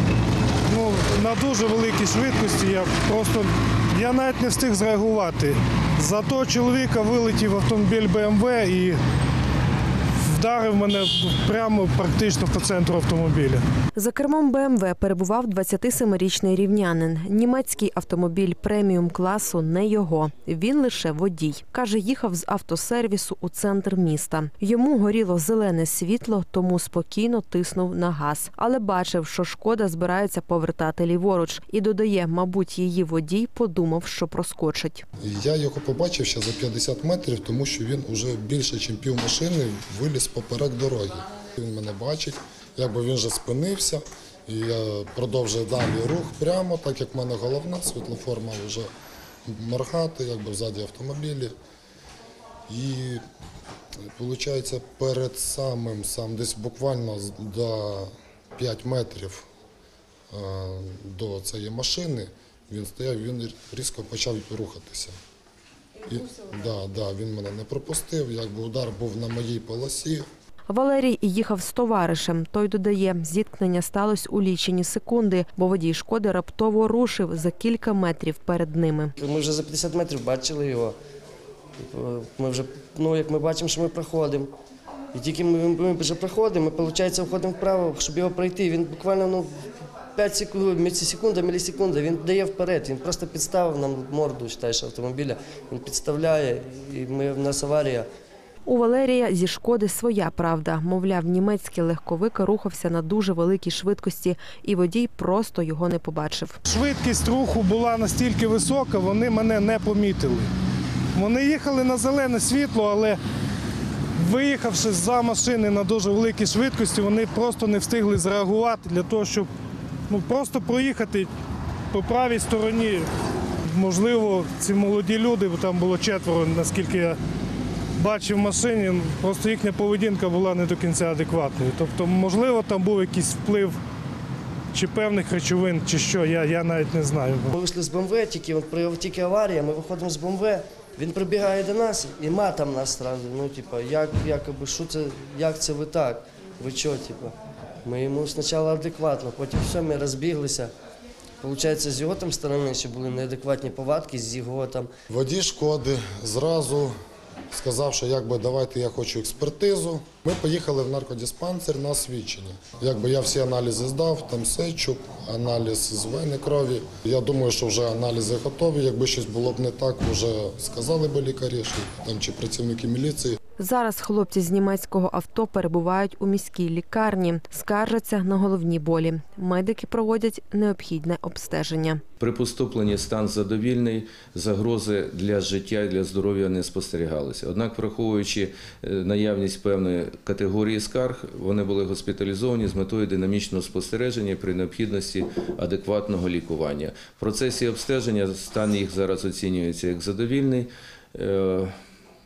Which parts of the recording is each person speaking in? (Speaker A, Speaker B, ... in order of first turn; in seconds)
Speaker A: 0.7-9.0, 10.2-13.6, 106.7-110.5, 111.1-113.2, 114.2-119.5, 120.1-121.3, 121.9-123.1, 123.6-127.2, 128.0-133.8, 134.7-137.5
Speaker B: 14.0-35.0, 70.7-79.1, 98.7-106.6, 173.6-182.0
Speaker C: 35.2-48.9, 49.5-51.5, 52.7-53.2, 54.1-59.5, 60.3-65.1, 66.0-70.3, 155.1-156.9, 157.5-173.4
Speaker D: 79.2-81.0, 81.8-84.5, 85.1-89.5, 90.2-98.1, 137.5-150.7, 151.4-154.9
Speaker E: 182.2-201.7